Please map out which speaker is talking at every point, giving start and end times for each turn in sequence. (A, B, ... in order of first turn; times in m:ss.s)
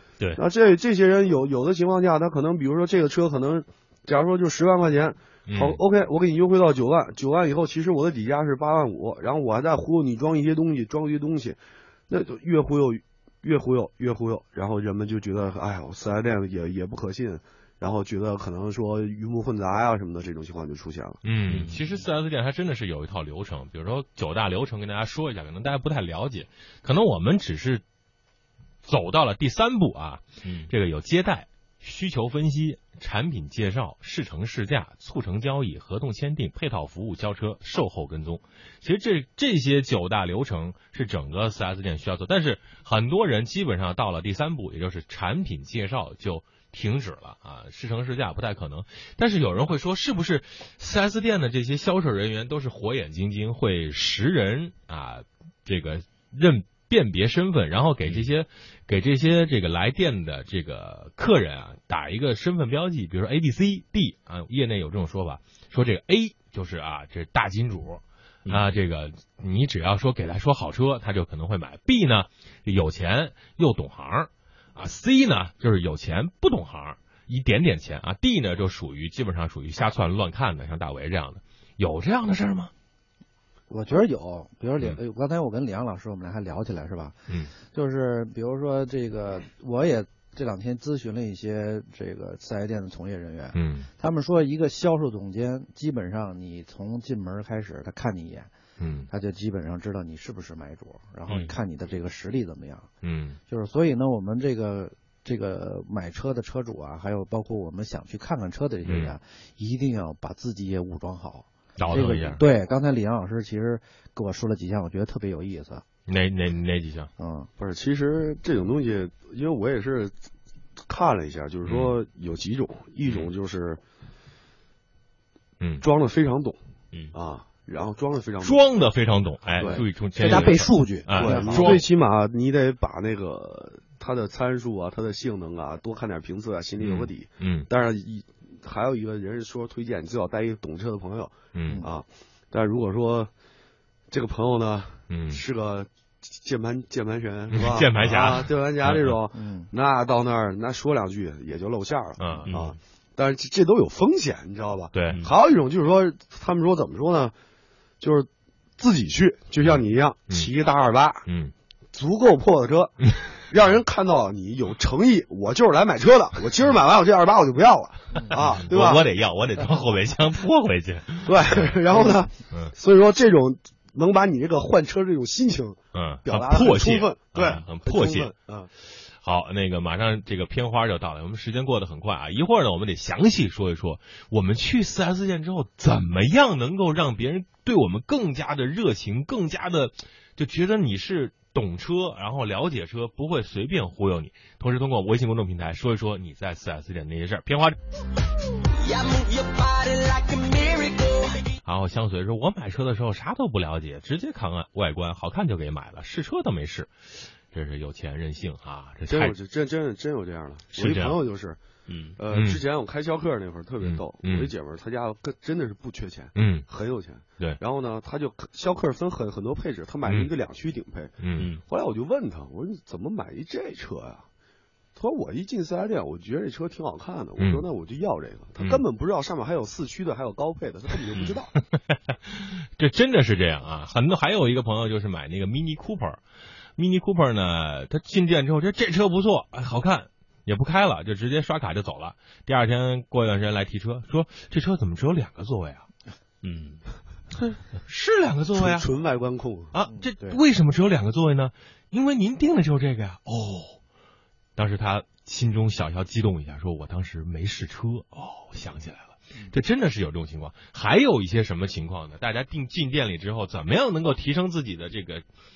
0:00.4-0:21.2 A
0:05.5-0:05.8 B
0:21.2-0:27.8 B
0:21.5-0:22.0 C
0:28.8-1:22.7 B
0:30.4-0:30.7 C
1:23.7-1:27.2 D
1:27.7-1:38.5 D
1:33.5-1:33.9 B
1:38.8-1:39.1 B
1:39.1-1:42.9 D
1:43.0-1:43.4 B
1:43.5-1:55.8 D
1:48.8-1:49.1 B
1:51.8-1:52.4 B
1:56.1-1:57.1 B
1:57.2-1:57.5 D
1:57.6-2:00.2 A
2:00.9-2:03.8 A
2:01.6-2:02.0 B
2:03.0-2:03.3 B
2:05.8-2:06.6 A
2:07.1-2:08.6 A
2:08.4-2:11.9 B
2:09.6-2:10.5 A
2:10.2-2:11.8 D
2:11.1-2:23.3 A
2:16.8-2:17.7 B
2:21.5-2:21.8 B
2:24.1-2:37.3 A
2:25.1-2:25.4 B
2:27.5-2:29.2 B
2:29.3-2:29.7 D
2:32.2-2:32.6 B
2:32.5-2:32.8 C
2:34.9-2:35.2 B
2:38.0-2:41.2 A
2:41.2-2:41.5 B
2:41.9-2:49.1 A
2:48.3-2:52.7 B
2:51.2-2:58.7 A
2:55.9-3:17.8 B
3:18.8-3:21.5 E
3:21.6-3:29.4 B
3:29.1-3:31.6 A
3:30.7-3:31.2 B
3:31.9-3:32.2 C
3:32.2-3:41.1 A
3:32.3-3:32.6 B
3:33.8-3:34.5 B
3:36.4-3:36.7 B
3:40.0-3:40.3 B
3:41.2-3:41.5 B
3:41.4-3:41.6 C
3:41.6-3:44.2 A
3:45.0-3:51.5 A
3:47.4-3:47.6 B
3:48.6-3:48.8 B
3:51.1-3:56.2 B
3:56.8-4:05.9 B
4:06.4-4:06.8 C
4:07.5-4:08.9 B
4:08.5-4:09.7 A
4:09.7-4:13.8 B
4:09.9-4:10.4 D
4:14.6-4:25.2 B